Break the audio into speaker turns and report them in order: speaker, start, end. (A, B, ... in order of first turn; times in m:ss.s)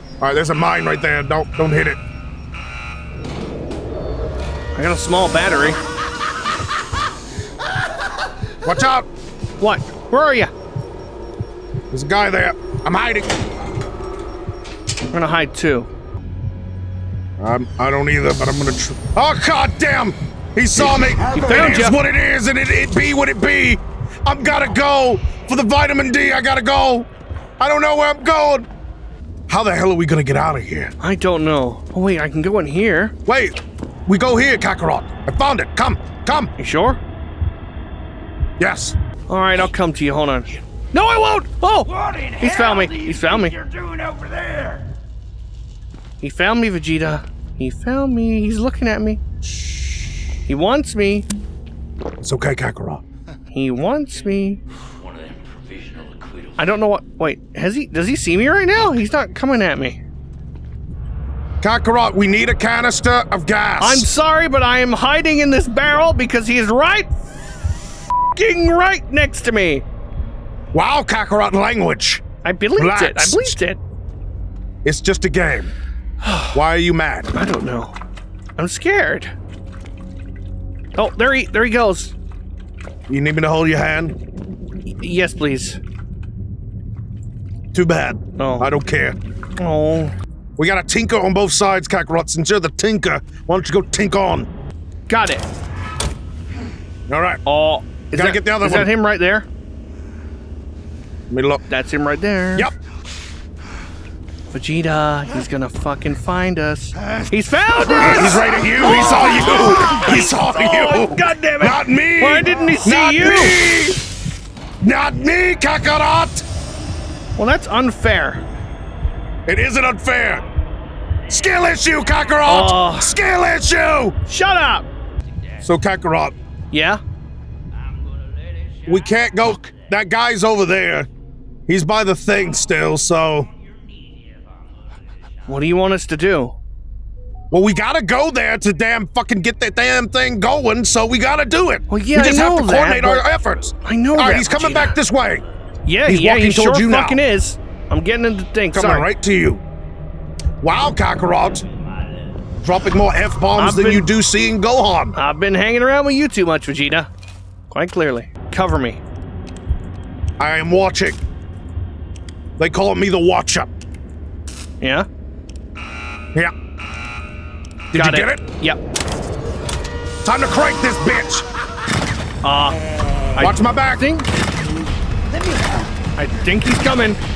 0:00.2-0:02.0 A
0:04.8-0:05.8 B
0:08.6-0:09.1 A
0:09.6-0:10.5 B
0:11.9-0:13.3 A
0:15.1-0:15.9 B
0:17.4-0:27.1 A
0:21.3-0:22.0 B
0:27.6-0:28.7 A
0:29.5-0:30.9 A
0:31.0-0:33.1 B
0:33.2-0:36.5 A
0:36.6-0:37.0 B
0:38.6-0:39.0 A
0:39.3-0:43.6 B
0:41.9-0:44.9 C
0:46.2-0:49.2 B
0:49.4-0:50.1 A
0:50.5-0:51.2 B
0:52.2-0:53.0 A
0:53.5-0:54.6 B
0:54.8-0:56.7 C
0:56.6-1:00.0 B
1:01.6-1:04.0 A
1:03.8-1:07.1 B
1:08.3-1:09.8 B
1:10.7-1:12.2 A
1:12.4-1:13.8 B
1:12.8-1:13.6 A
1:14.8-1:15.7 A
1:16.2-1:16.6 B
1:16.5-1:17.3 A
1:17.3-1:17.9 B
1:18.6-1:19.3 B
1:21.0-1:22.1 B
1:23.1-1:24.2 A
1:24.9-1:25.8 B
1:27.7-1:29.2 A
1:28.4-1:28.7 B
1:29.6-1:30.1 B
1:30.6-1:34.5 A
1:35.1-1:35.4 B
1:37.1-1:37.4 A
1:37.4-1:39.4 B
1:38.1-1:38.9 A
1:41.3-1:41.6 A
1:41.7-1:42.7 B
1:44.5-1:53.6 B
1:48.0-1:54.0 A
1:54.8-1:56.4 A
1:57.4-1:58.4 B
1:59.4-2:00.4 A
2:01.3-2:04.2 A
2:02.4-2:03.1 B
2:04.3-2:04.9 B
2:05.6-2:06.3 A
2:06.7-2:07.0 B
2:08.2-2:08.9 C
2:08.8-2:11.1 A
2:11.7-2:13.5 A
2:13.8-2:14.4 C
2:15.5-2:16.5 B
2:17.5-2:25.4 A
2:21.9-2:23.3 B
2:23.8-2:25.0 B
2:25.8-2:29.1 B
2:26.0-2:27.2 A
2:28.7-2:29.6 A
2:30.6-2:31.6 A
2:32.6-2:35.2 A
2:33.6-2:34.1 B
2:35.1-2:37.1 B
2:37.7-2:39.0 B
2:40.4-2:41.2 A
2:42.6-2:43.7 A
2:44.8-2:45.1 B
2:47.9-2:48.4 A
2:47.9-2:48.8 B
2:50.2-2:51.4 A
2:52.4-2:52.8 B
2:53.3-2:54.3 B
2:53.4-2:54.0 A
2:56.2-2:57.2 B